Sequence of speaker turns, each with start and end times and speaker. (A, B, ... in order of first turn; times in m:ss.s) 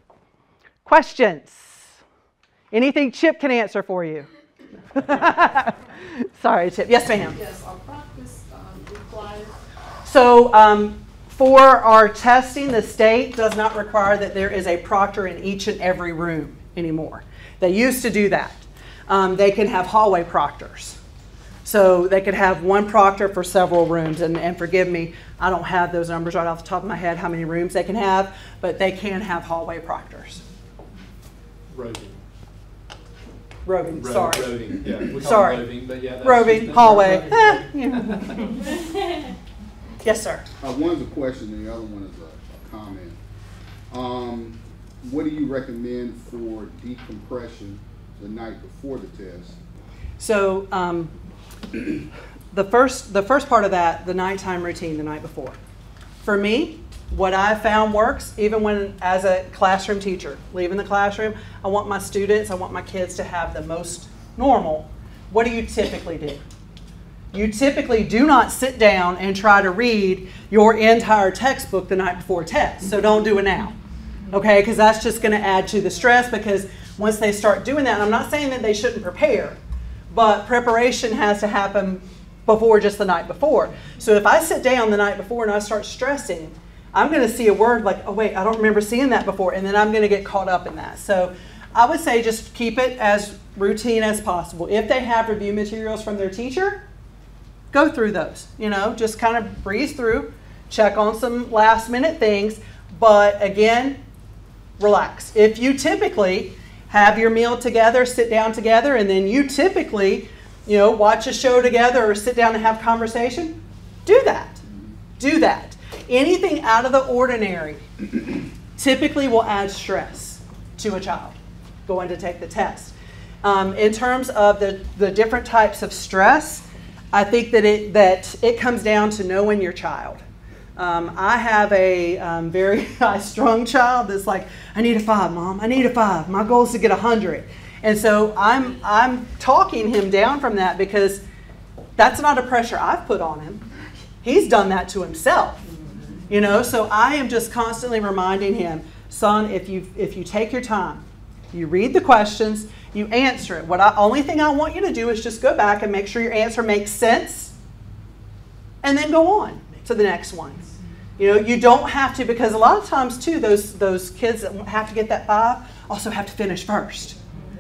0:00.8-0:01.9 A
0:02.7-0:04.3 A
0:04.9-0:07.4 A
0:07.3-0:09.6 B
0:10.1-0:21.0 A
0:21.7-0:30.4 A
0:31.7-0:32.2 C
0:33.7-0:38.5 A
0:33.9-0:38.5 C
0:34.8-0:35.2 D
0:40.0-0:40.4 A
0:40.6-0:43.2 D
0:43.9-0:49.6 D
0:50.2-0:51.1 A
0:52.5-0:55.6 A
0:56.2-1:06.4 A
1:07.3-1:13.8 A
1:14.3-1:19.6 A
1:20.1-1:36.8 A
1:37.7-1:44.0 A
1:44.8-1:54.6 A
1:55.2-1:58.2 A
1:58.8-2:10.2 A
2:10.8-2:21.2 A
2:22.0-2:23.6 A
2:24.2-2:25.6 A
2:26.3-2:37.5 A
2:38.8-2:47.2 A